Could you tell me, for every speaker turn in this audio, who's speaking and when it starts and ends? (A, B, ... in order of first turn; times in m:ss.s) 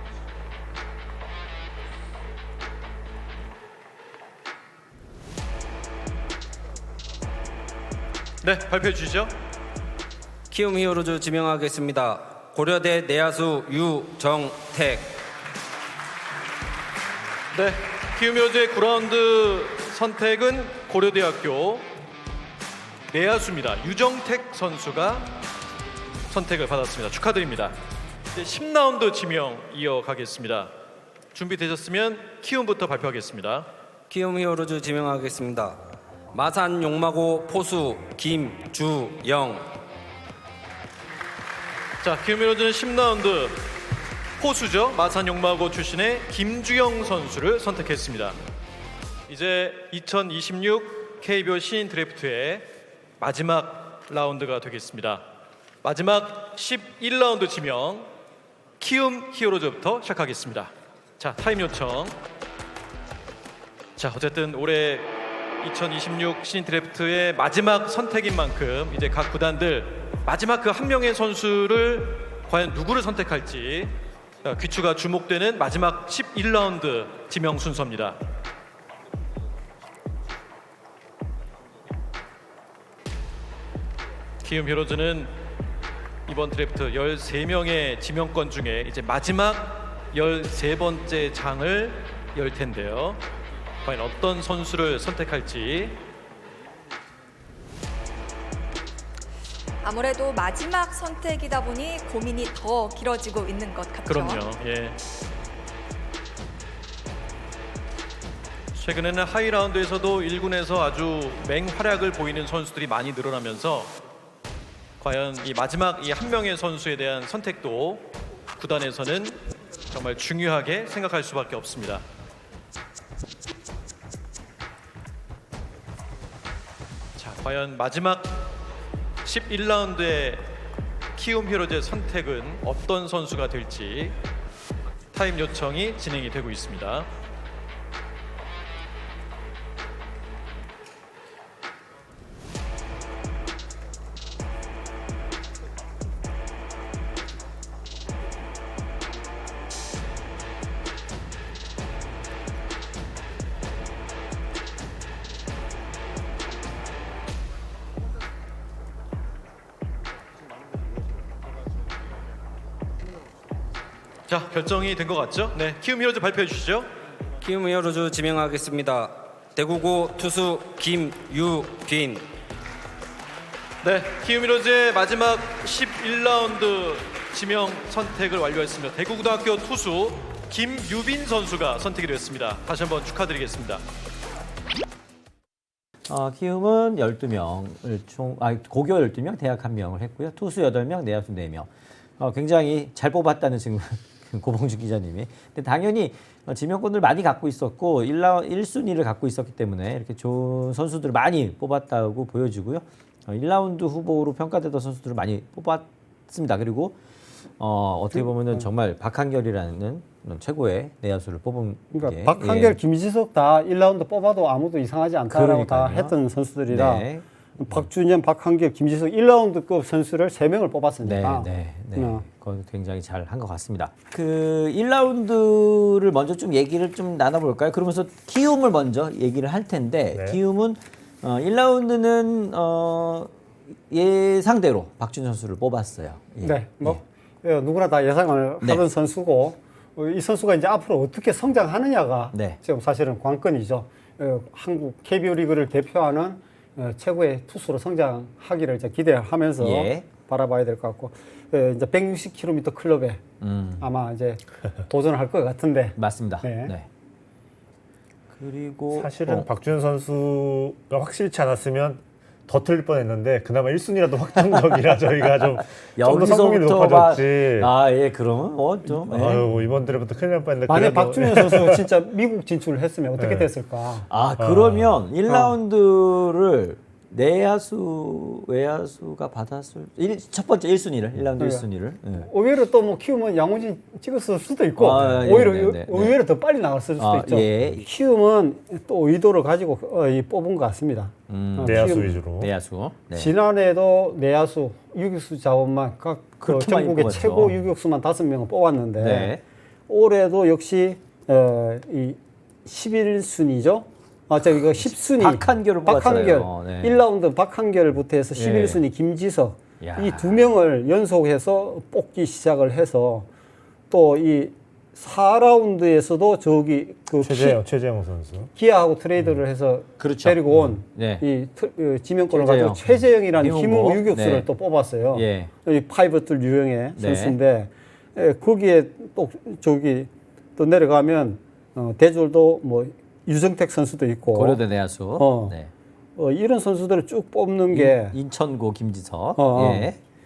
0:08.4-0:09.3 A
0:10.5-0:15.2 B
0:17.5-0:21.9 A
0:23.1-0:25.4 A
0:26.3-0:27.8 A
0:28.3-0:30.7 A
0:31.3-0:33.7 A
0:34.1-0:39.8 B
0:42.0-0:43.8 A
0:44.4-0:48.4 A
0:49.3-0:52.7 A
0:53.2-0:55.2 A
0:55.8-0:58.1 A
0:58.8-1:02.2 A
1:04.0-1:18.2 A
1:24.4-1:25.4 A
1:26.3-1:33.2 A
1:33.8-1:36.0 A
1:39.8-1:44.4 C
1:44.1-1:45.0 A
1:48.8-1:54.0 A
1:55.0-2:02.0 A
2:07.2-2:08.5 A
2:09.2-2:10.5 A
2:11.2-2:14.2 A
2:15.1-2:17.1 A
2:44.3-2:46.9 A
2:47.4-2:52.3 B
2:53.8-3:03.8 A
3:06.1-3:27.0 D
3:27.6-3:32.8 D
3:28.2-3:28.6 E
3:31.9-3:42.2 E
3:35.3-3:36.2 D
3:36.7-3:37.9 D
3:41.0-3:53.3 D
3:50.1-3:50.4 F
3:53.9-3:57.0 D
3:56.4-4:13.2 E
4:02.3-4:02.6 D
4:09.6-4:10.1 D
4:13.4-4:13.9 D
4:13.8-4:16.8 E
4:16.0-4:16.9 D
4:18.3-4:19.5 D
4:18.9-4:27.7 F
4:26.0-4:29.7 D
4:28.9-4:31.8 F
4:30.7-4:34.0 E
4:33.2-4:33.5 F
4:34.1-4:42.3 D
4:34.4-4:35.0 F
4:35.3-4:35.5 E
4:41.4-4:52.2 E
4:44.8-4:46.2 D
4:47.0-4:47.9 D
4:51.3-4:53.3 D
4:51.6-4:52.5 F
4:53.1-4:59.4 E
4:56.4-4:57.6 D
4:59.0-4:59.4 D
4:59.9-5:13.3 E
5:04.4-5:07.0 D
5:08.4-5:08.8 D
5:09.8-5:10.4 D
5:13.9-5:17.6 E
5:17.2-5:18.5 F
5:18.6-5:34.6 E
5:20.0-5:21.3 D
5:22.3-5:24.5 D
5:25.1-5:25.5 D
5:27.0-5:27.4 D
5:34.3-5:35.7 D
5:35.2-5:35.6 E
5:36.2-5:38.2 E
5:37.7-5:40.0 D
5:39.4-5:39.9 E